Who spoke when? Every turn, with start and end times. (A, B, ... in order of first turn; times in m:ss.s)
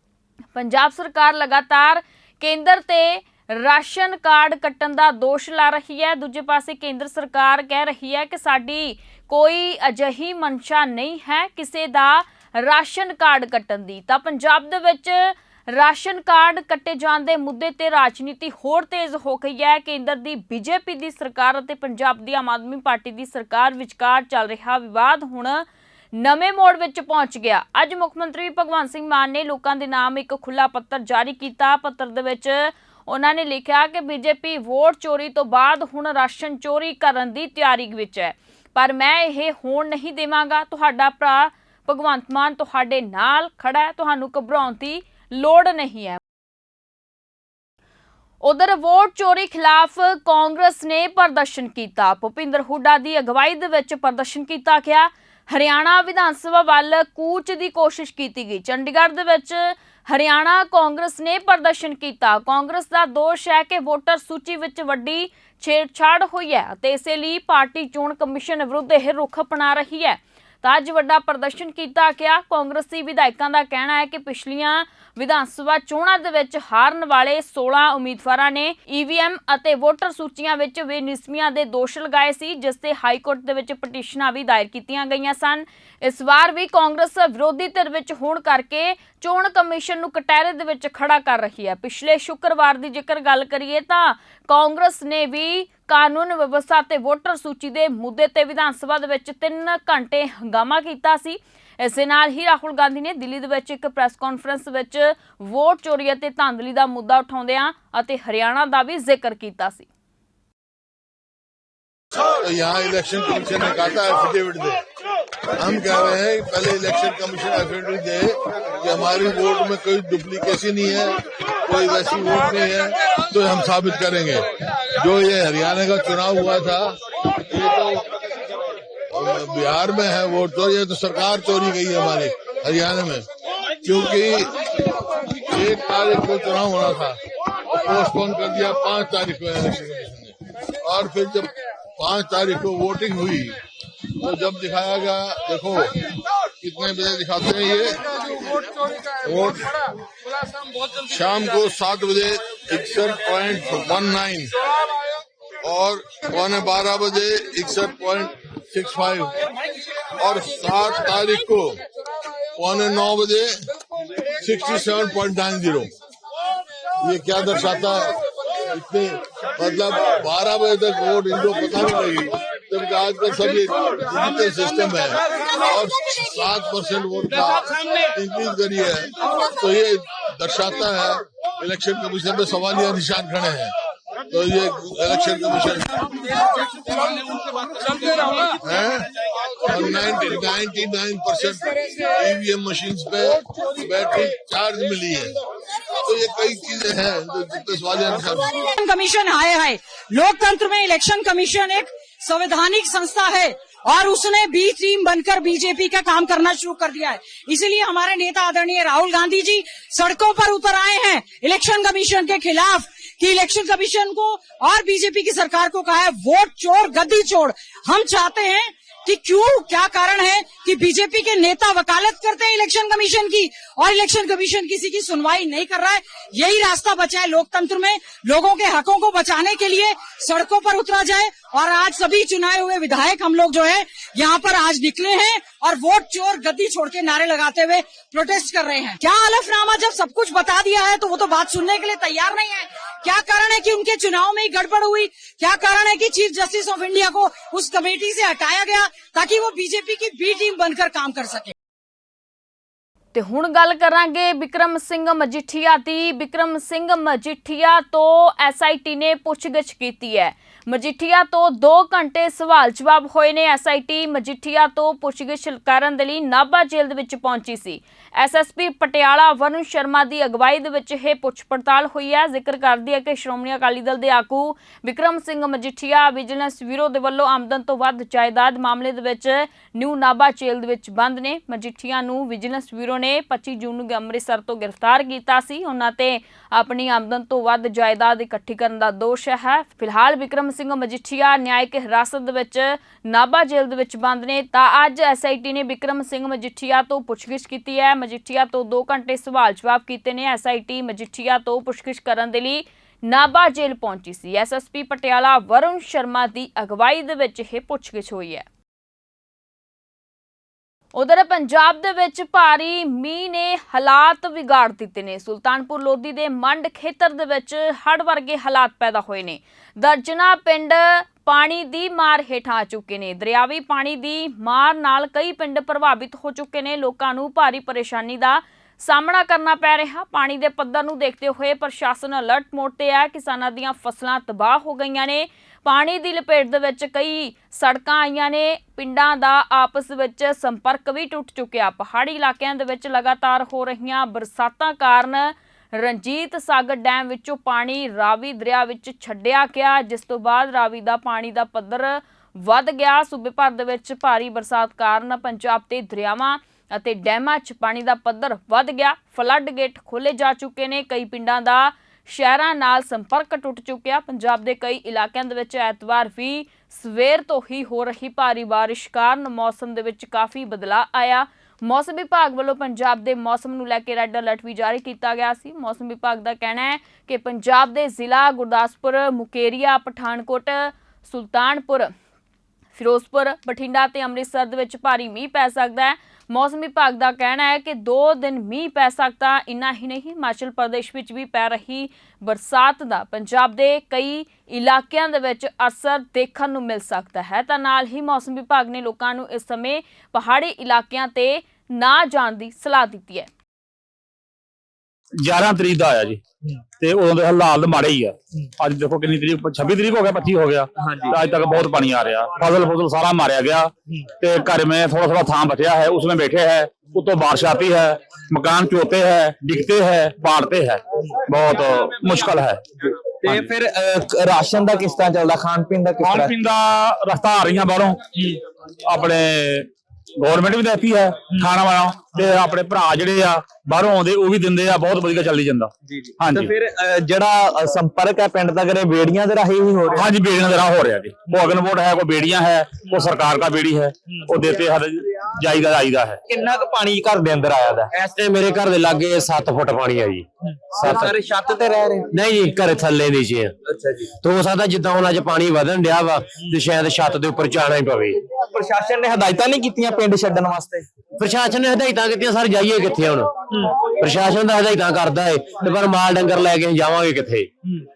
0:00.5-0:46.2 A
0:48.4-1:49.9 A
1:52.4-1:54.8 B
1:55.6-2:07.0 B
2:07.5-2:08.0 B
2:09.1-2:13.2 B
2:13.8-2:14.5 B
2:15.5-2:17.2 B
2:17.8-2:23.6 B
2:24.2-2:25.9 B
2:26.6-2:28.0 B
2:29.2-2:29.7 B
2:31.1-2:34.5 B
2:35.6-2:39.4 B
2:40.2-2:41.8 B
2:42.6-2:43.6 B
2:44.4-2:45.9 B
2:47.0-2:48.1 B
2:48.7-3:03.7 B
3:04.3-3:06.3 B
3:08.6-3:09.1 B
3:09.6-3:15.3 B
3:16.0-3:18.6 B
3:18.7-4:11.5 C
4:13.1-5:08.4 A
5:10.9-6:21.9 A
6:22.7-6:43.3 A
6:45.2-6:46.2 D
6:46.8-7:02.6 D
7:03.2-7:06.3 E
7:06.0-7:09.7 D
7:10.2-7:16.5 D
7:16.3-7:20.1 E
7:19.9-7:26.2 D
7:26.3-7:28.0 E
7:28.0-7:30.3 F
7:30.7-7:32.1 E
7:30.8-7:31.1 F
7:32.1-7:33.5 F
7:33.7-7:34.1 E
7:34.1-7:38.2 F
7:38.4-7:40.8 E
7:41.2-7:43.3 F
7:44.0-7:47.5 F